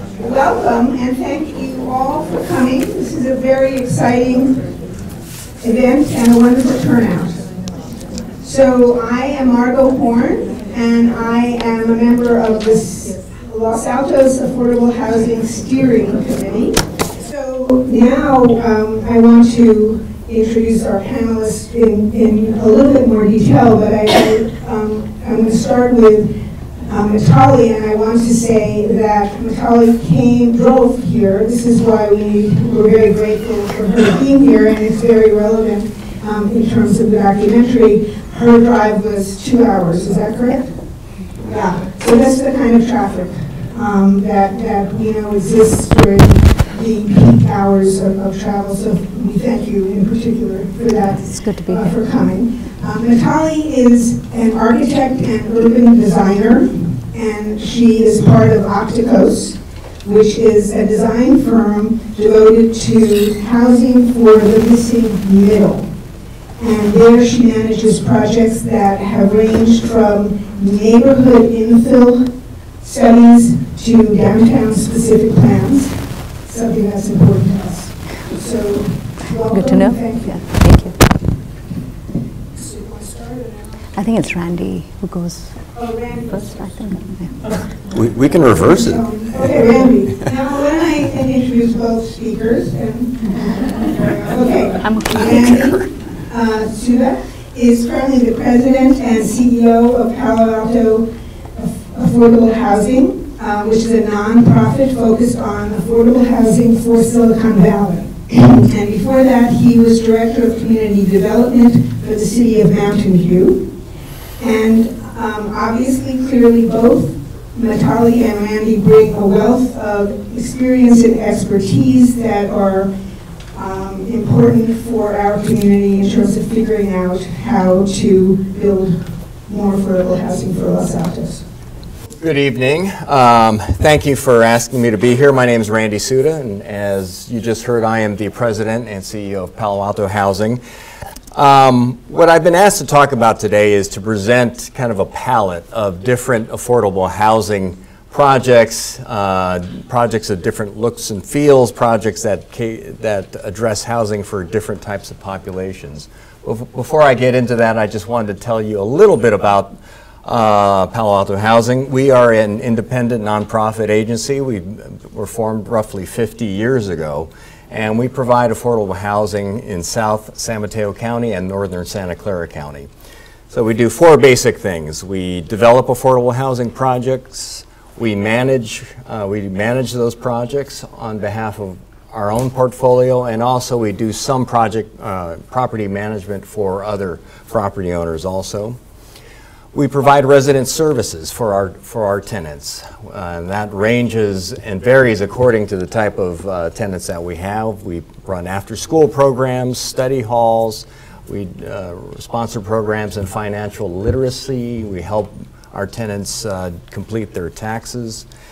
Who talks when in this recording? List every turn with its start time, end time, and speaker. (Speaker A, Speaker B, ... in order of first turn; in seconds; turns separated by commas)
Speaker A: 0.2-4.6, Speaker A: 5.6-7.5, Speaker A: 8.4-40.9, Speaker A: 41.4-65.9, Speaker B: 51.3-51.9, Speaker A: 66.6-80.6, Speaker B: 79.5-81.0, Speaker A: 82.5-83.8, Speaker B: 84.0-87.6, Speaker A: 85.7-86.9, Speaker C: 87.9-89.7, Speaker A: 88.3-113.7, Speaker B: 94.8-96.0, Speaker A: 114.4-122.9, Speaker A: 123.5-131.5, Speaker C: 132.2-140.6, Speaker C: 141.3-172.9, Speaker C: 173.5-188.8, Speaker C: 189.7-208.3